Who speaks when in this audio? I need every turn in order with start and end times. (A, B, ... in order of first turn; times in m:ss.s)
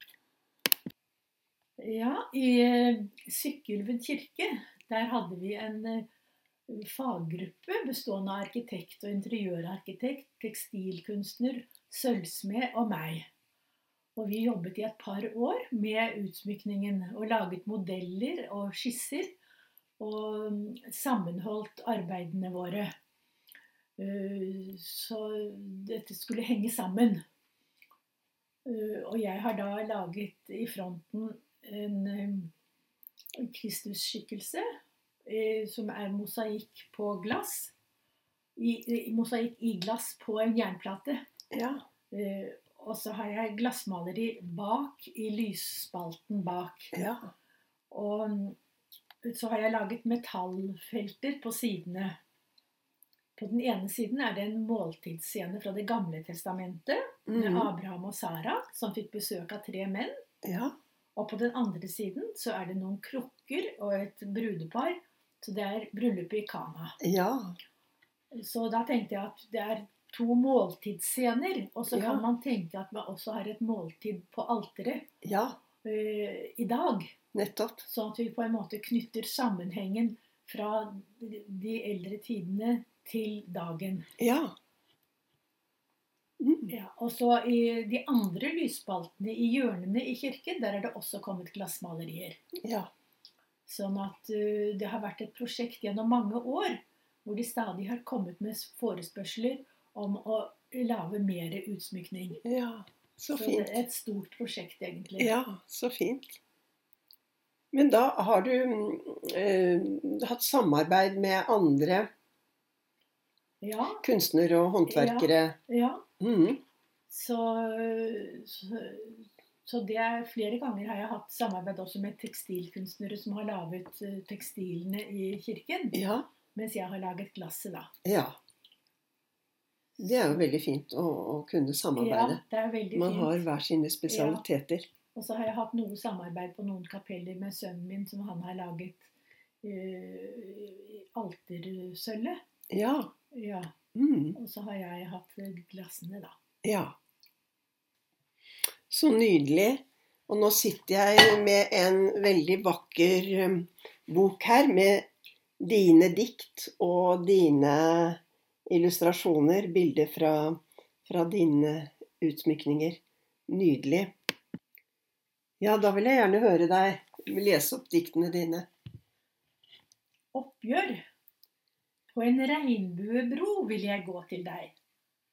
0:01.8-0:06.1 A
0:06.7-0:13.3 A
0:14.2-0:19.4 A
0:20.0-0:22.9 A
0:24.0-0:27.2 A
0:28.6-0:32.5 A
0:33.4-0:34.6 A
0:35.2-0:37.7 A
0:38.6-0:41.2 A
0:41.5-0:41.8 B
0:42.1-0:46.9 A
0:46.9-0:47.3 B
0:47.9-0:48.6 A
0:49.2-0:52.2 A
0:53.4-1:00.2 A
0:57.3-0:57.7 B
1:00.4-1:00.8 B
1:01.2-1:07.0 A
1:07.0-1:07.6 B
1:08.3-1:15.1 A
1:11.9-1:12.2 B
1:15.2-1:15.6 B
1:15.8-1:17.2 A
1:17.3-1:17.8 B
1:17.8-1:24.1 A
1:24.2-1:24.6 B
1:26.4-1:26.7 B
1:26.7-1:32.4 A
1:32.6-1:32.9 B
1:33.6-1:42.4 A
1:42.4-1:43.8 B
1:43.3-1:45.3 A
1:45.2-1:46.4 B
1:47.7-1:52.1 B
1:53.6-1:54.0 A
1:54.0-1:55.6 B
1:54.9-1:56.0 A
1:56.2-1:56.6 B
1:57.1-2:06.0 A
2:05.9-2:06.3 B
2:06.5-2:07.9 A
2:08.0-2:08.4 B
2:10.0-2:10.4 A
2:10.0-2:12.4 B
2:12.0-2:13.4 A
2:12.9-2:14.9 B
2:14.1-2:14.4 A
2:15.1-2:19.1 A
2:19.6-2:22.4 A
2:22.7-2:23.1 B
2:23.3-2:23.7 A
2:23.9-2:24.4 B
2:24.3-2:26.4 A
2:26.6-2:27.0 B
2:28.9-2:44.1 B
2:45.6-2:48.7 B
2:50.3-2:51.1 A
2:52.1-2:54.7 A